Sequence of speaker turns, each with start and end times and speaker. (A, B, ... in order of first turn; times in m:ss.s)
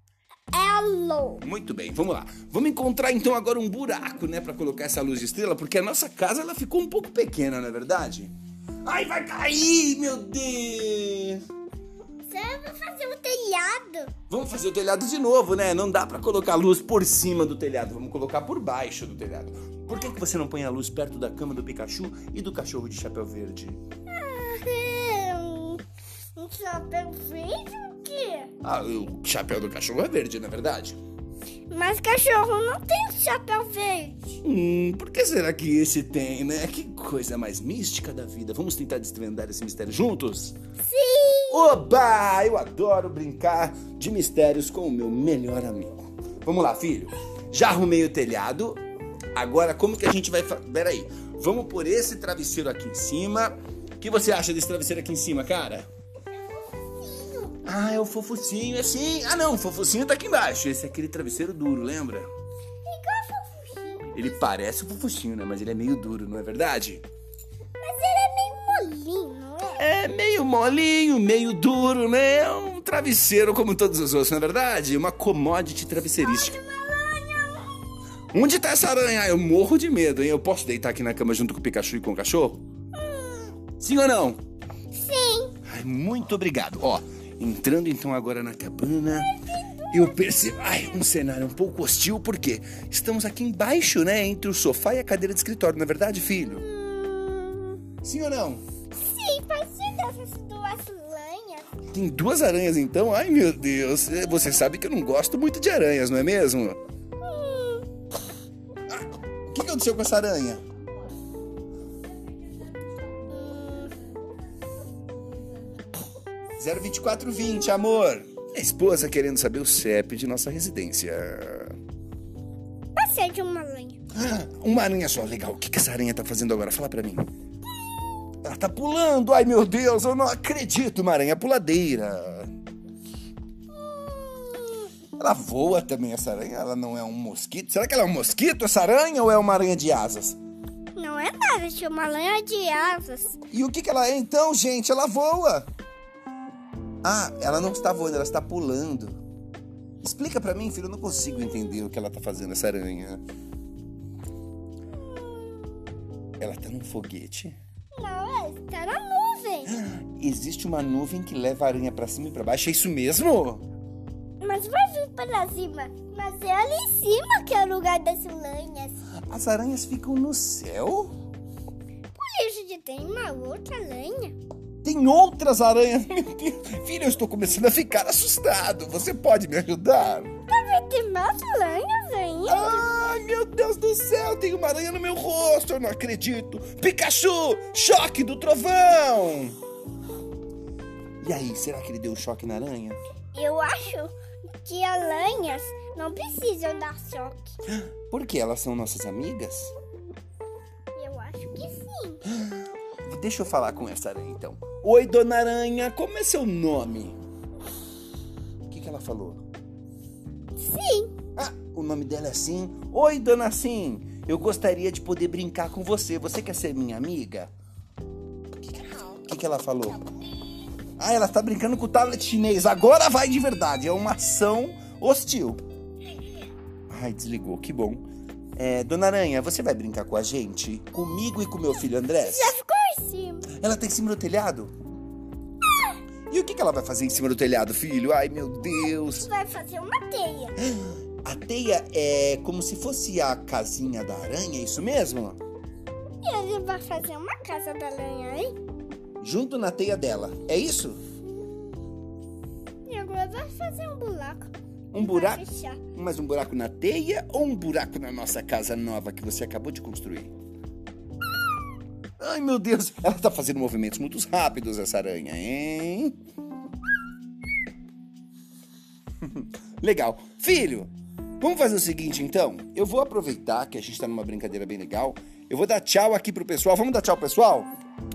0:00.5-0:01.4 A
0:01.4-0:11.4 B
0:12.3-0:14.1 A
0:14.3-0:23.8 B
0:24.1-0:25.8 A
0:26.4-0:28.5 A
0:28.6-0:31.0 B
0:31.7-0:34.4 A
0:34.4-0:40.6 B
0:40.8-0:41.7 A
0:41.5-0:48.8 B
0:49.3-0:55.9 B
0:56.3-0:57.6 A
0:57.6-1:02.3 B
1:02.8-1:04.2 A
1:04.1-1:07.0 B
1:07.8-1:09.8 A
1:09.8-1:16.6 B
1:16.2-1:17.7 A
1:18.3-1:22.6 B
1:22.9-1:23.5 A
1:23.8-1:24.4 B
1:24.9-1:25.5 A
1:25.6-1:29.3 B
1:29.4-1:30.1 A
1:29.9-1:36.6 B
1:36.6-1:37.8 A
1:38.0-1:38.6 B
1:39.0-1:41.7 A
1:41.9-1:46.8 B
1:47.2-1:47.8 A
1:48.9-1:50.6 B
1:53.2-1:53.9 A
1:56.6-2:01.8 B
2:03.0-2:04.0 A
2:04.1-2:07.2 B
2:08.4-2:12.5 B
2:13.8-2:14.9 A
2:15.2-2:20.4 B
2:20.9-2:23.4 A
2:23.5-2:25.7 B
2:27.0-2:29.2 B
2:30.0-2:33.2 B
2:35.0-2:36.0 A
2:36.4-2:37.6 B
2:37.9-2:39.7 A
2:39.6-2:43.7 B
2:44.4-2:48.9 A
2:49.3-2:51.1 B
2:52.1-2:54.3 A
2:54.8-3:00.3 B
3:00.5-3:02.9 A
3:02.5-3:09.6 B
3:11.2-3:13.0 B
3:13.3-3:17.5 A
3:17.7-3:19.7 B
3:20.9-3:22.2 A
3:22.3-3:27.2 B
3:28.7-3:29.4 B
3:30.6-3:31.1 A
3:31.4-3:37.5 B
3:39.2-3:40.0 B
3:41.0-3:45.6 B
3:46.9-3:48.0 B
3:48.6-3:52.5 B
3:52.2-3:53.5 A
3:53.5-3:54.7 B
3:56.3-3:59.3 B
3:59.2-4:00.5 A
4:00.6-4:05.4 B
4:06.2-4:08.5 A
4:09.2-4:11.0 B
4:12.9-4:14.5 A
4:14.9-4:20.3 B
4:15.0-4:15.8 A
4:22.2-4:26.2 B
4:29.2-4:37.7 B